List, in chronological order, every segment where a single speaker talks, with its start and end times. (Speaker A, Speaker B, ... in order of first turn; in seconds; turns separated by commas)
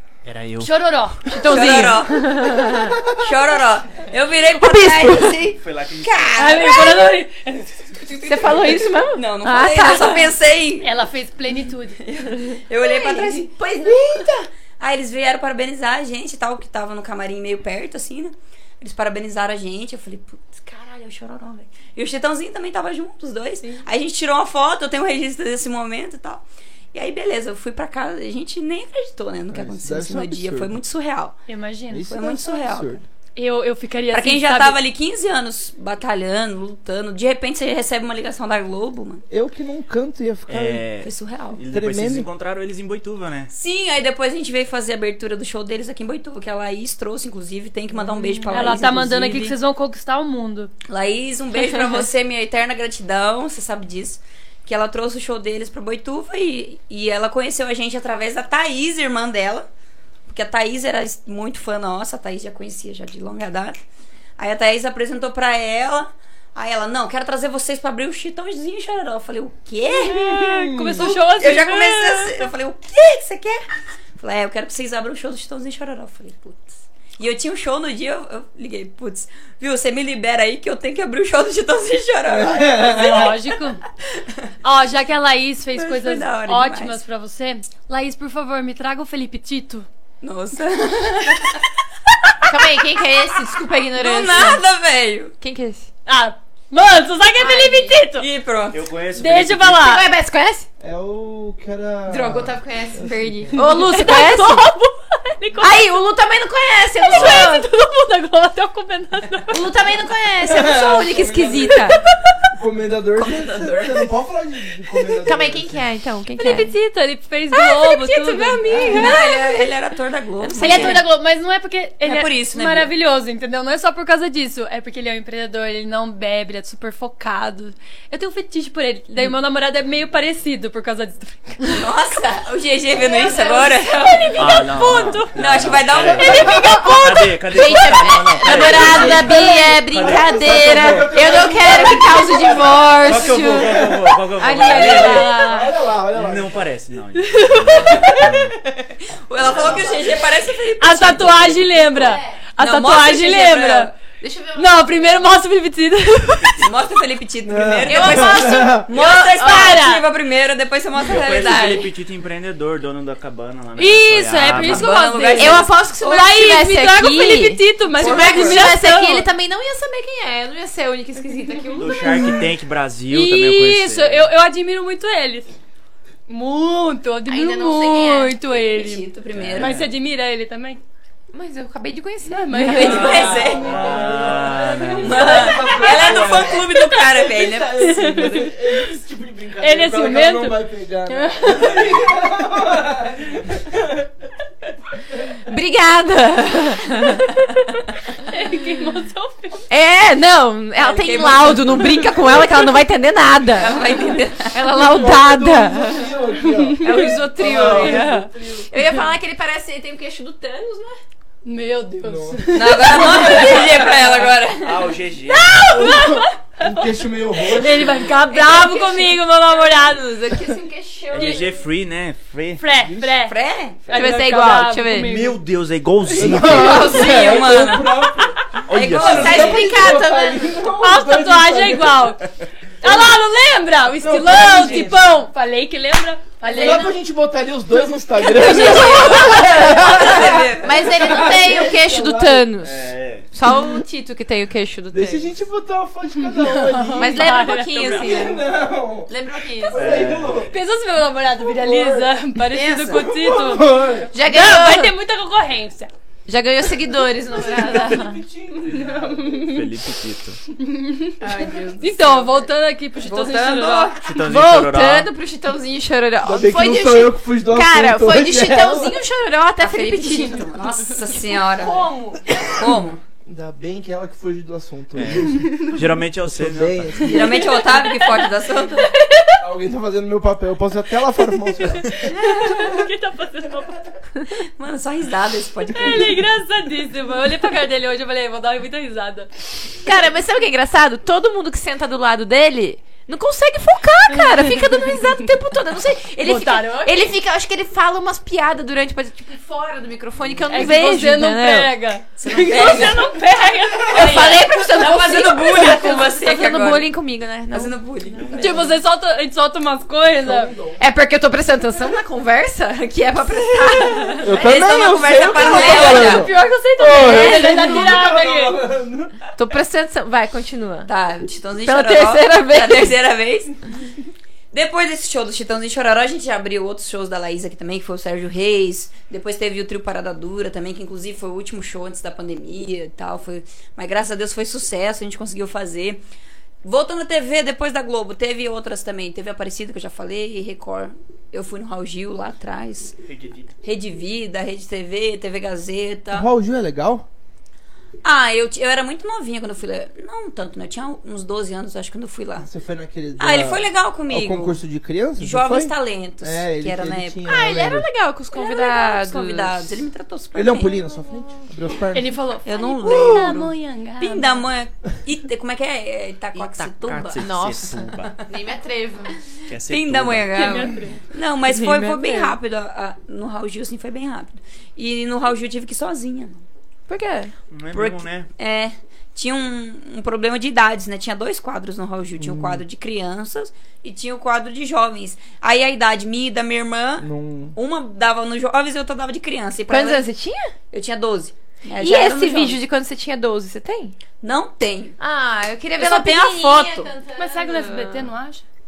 Speaker A: 0.2-0.7, Speaker B: 0.6-1.6, Speaker C: 1.3-3.0, Speaker D: 1.5-7.1, Speaker C: 4.5-5.5, Speaker A: 5.5-6.8, Speaker B: 6.4-7.9, Speaker D: 8.0-10.9, Speaker C: 8.2-10.3, Speaker B: 10.8-12.0, Speaker D: 12.1-26.4, Speaker C: 12.5-14.3, Speaker D: 26.9-31.4, Speaker E: 29.5-30.8, Speaker B: 31.5-32.1, Speaker E: 31.9-33.0, Speaker D: 32.1-33.0, Speaker B: 33.4-34.8, Speaker D: 34.1-39.2, Speaker E: 39.3-40.9, Speaker A: 40.5-43.5, Speaker D: 41.0-41.6, Speaker E: 41.7-42.3, Speaker D: 43.5-49.6, Speaker B: 48.5-50.7, Speaker D: 50.9-59.7, Speaker D: 60.3-63.8, Speaker D: 64.4-70.3, Speaker B: 70.0-72.5, Speaker E: 70.1-71.1, Speaker D: 71.0-73.6, Speaker D: 74.2-83.4, Speaker E: 82.3-83.3, Speaker B: 82.8-83.8, Speaker B: 84.6-89.9, Speaker D: 85.8-87.0, Speaker D: 90.2-91.7, Speaker D: 92.2-95.3, Speaker C: 92.5-94.6, Speaker C: 95.4-95.9, Speaker B: 96.1-98.3, Speaker C: 97.4-98.0, Speaker D: 98.2-98.8, Speaker A: 98.7-99.9, Speaker B: 99.2-100.1, Speaker C: 99.8-100.7, Speaker E: 100.8-103.6, Speaker C: 102.1-104.7, Speaker B: 103.5-105.9, Speaker C: 105.6-107.6, Speaker B: 107.0-109.7, Speaker A: 107.1-107.6, Speaker C: 109.5-112.0, Speaker E: 110.4-111.9, Speaker E: 112.5-115.8, Speaker D: 113.2-114.1, Speaker C: 115.2-116.7, Speaker B: 116.4-119.2, Speaker C: 117.5-119.6, Speaker E: 118.7-119.2, Speaker D: 118.9-121.1, Speaker C: 120.4-121.1, Speaker B: 120.6-131.8, Speaker D: 122.0-122.9, Speaker D: 131.7-134.4, Speaker B: 133.0-135.4, Speaker A: 134.4-141.1, Speaker D: 135.3-136.6, Speaker B: 136.1-137.3, Speaker C: 136.3-145.4, Speaker E: 138.6-146.7, Speaker A: 143.0-145.3, Speaker B: 144.4-145.7, Speaker A: 146.1-148.6, Speaker B: 147.2-148.3, Speaker D: 149.3-151.6, Speaker A: 149.5-149.9, Speaker B: 150.8-153.9, Speaker A: 151.3-151.6, Speaker C: 151.8-152.4, Speaker D: 152.6-153.9, Speaker C: 154.2-155.2, Speaker B: 154.6-156.6, Speaker A: 156.3-156.7, Speaker D: 156.6-161.9, Speaker E: 157.4-158.9, Speaker C: 157.9-159.8, Speaker B: 158.9-160.0, Speaker A: 161.1-165.0, Speaker B: 163.8-169.3, Speaker D: 164.5-166.0, Speaker C: 165.4-172.4, Speaker D: 168.0-168.7, Speaker A: 171.7-174.3, Speaker B: 173.1-175.5, Speaker B: 176.3-180.8, Speaker C: 177.3-178.3, Speaker D: 178.5-179.8, Speaker A: 179.3-179.9, Speaker C: 181.3-183.4, Speaker B: 182.3-183.9, Speaker D: 182.6-183.8, Speaker E: 182.9-194.1, Speaker A: 183.6-185.5, Speaker D: 185.0-188.5, Speaker B: 187.8-188.5, Speaker B: 189.6-191.8, Speaker C: 195.5-197.7, Speaker B: 198.3-199.6, Speaker C: 199.7-204.0, Speaker D: 200.8-202.7, Speaker D: 203.6-204.6, Speaker C: 204.5-206.1, Speaker E: 204.8-208.7, Speaker B: 206.5-208.3, Speaker C: 206.8-211.0, Speaker B: 211.4-213.6, Speaker E: 212.0-213.9, Speaker D: 212.5-214.9, Speaker A: 214.6-215.7, Speaker B: 215.3-216.7, Speaker E: 216.6-218.1, Speaker B: 217.5-220.2, Speaker C: 218.3-221.6, Speaker A: 221.1-222.6, Speaker B: 221.2-221.5, Speaker B: 222.6-225.4, Speaker E: 222.8-223.1, Speaker D: 223.2-223.8, Speaker C: 223.9-225.1, Speaker A: 225.0-227.3, Speaker E: 226.1-232.1, Speaker D: 226.4-228.0, Speaker A: 228.7-229.5, Speaker D: 228.7-229.7, Speaker C: 229.0-230.5, Speaker B: 230.8-232.2, Speaker B: 232.8-237.0, Speaker E: 234.0-235.1, Speaker C: 234.4-234.9, Speaker E: 236.5-242.5, Speaker B: 237.9-239.3, Speaker C: 238.3-245.3, Speaker D: 238.5-240.9, Speaker A: 242.6-243.3, Speaker E: 244.9-250.5, Speaker B: 246.2-248.0, Speaker C: 247.0-248.4, Speaker C: 249.1-249.8, Speaker A: 249.7-250.5, Speaker B: 250.5-255.9, Speaker E: 251.3-252.2, Speaker C: 252.5-253.2, Speaker E: 252.9-254.1, Speaker C: 254.1-254.9, Speaker C: 256.3-258.2, Speaker E: 257.3-259.4, Speaker B: 257.4-258.0, Speaker B: 258.6-259.7, Speaker A: 259.4-260.4, Speaker B: 260.5-261.2, Speaker D: 261.3-262.4, Speaker B: 261.8-264.2, Speaker D: 263.0-264.0, Speaker A: 264.0-265.1, Speaker C: 264.2-272.3, Speaker E: 266.2-269.0, Speaker D: 269.6-271.9, Speaker D: 272.4-273.0, Speaker E: 273.3-275.7, Speaker A: 274.9-277.2, Speaker E: 276.3-277.5, Speaker D: 277.0-278.9, Speaker B: 277.2-278.9, Speaker E: 279.4-282.1, Speaker B: 281.8-283.9, Speaker D: 284.6-286.2, Speaker B: 285.7-289.3, Speaker C: 289.8-301.8, Speaker B: 294.1-295.2, Speaker B: 296.2-297.1, Speaker B: 300.5-304.4, Speaker D: 302.2-303.1, Speaker D: 303.9-306.9, Speaker C: 303.9-308.4, Speaker B: 305.5-306.0, Speaker D: 307.5-308.5, Speaker B: 308.3-310.5, Speaker E: 310.1-310.8, Speaker C: 310.8-314.4, Speaker B: 313.8-314.2, Speaker E: 314.2-319.2, Speaker D: 314.4-316.3, Speaker B: 315.4-318.6, Speaker C: 317.0-317.9, Speaker C: 319.4-320.9, Speaker D: 320.9-323.5, Speaker C: 321.6-322.9, Speaker D: 324.5-336.0, Speaker D: 336.6-343.0, Speaker A: 343.0-343.5, Speaker D: 343.6-346.3, Speaker E: 346.1-347.1, Speaker D: 348.0-352.5, Speaker E: 352.4-357.9, Speaker D: 353.2-354.6, Speaker D: 355.2-357.3, Speaker C: 357.3-359.8, Speaker D: 358.3-360.8, Speaker E: 360.4-362.2, Speaker B: 361.9-364.4, Speaker D: 362.5-367.3, Speaker E: 362.8-363.4, Speaker C: 366.4-369.1, Speaker A: 366.9-368.2, Speaker A: 369.5-370.5, Speaker D: 369.7-376.4, Speaker B: 370.3-371.0, Speaker C: 371.5-372.4, Speaker C: 376.9-377.3, Speaker A: 377.5-378.3, Speaker D: 377.7-390.1, Speaker E: 382.2-382.6, Speaker E: 387.0-387.6, Speaker C: 389.7-390.5, Speaker D: 390.7-392.6, Speaker C: 391.8-394.0, Speaker D: 394.2-395.0, Speaker C: 395.0-398.1, Speaker D: 395.8-396.9, Speaker B: 397.2-398.4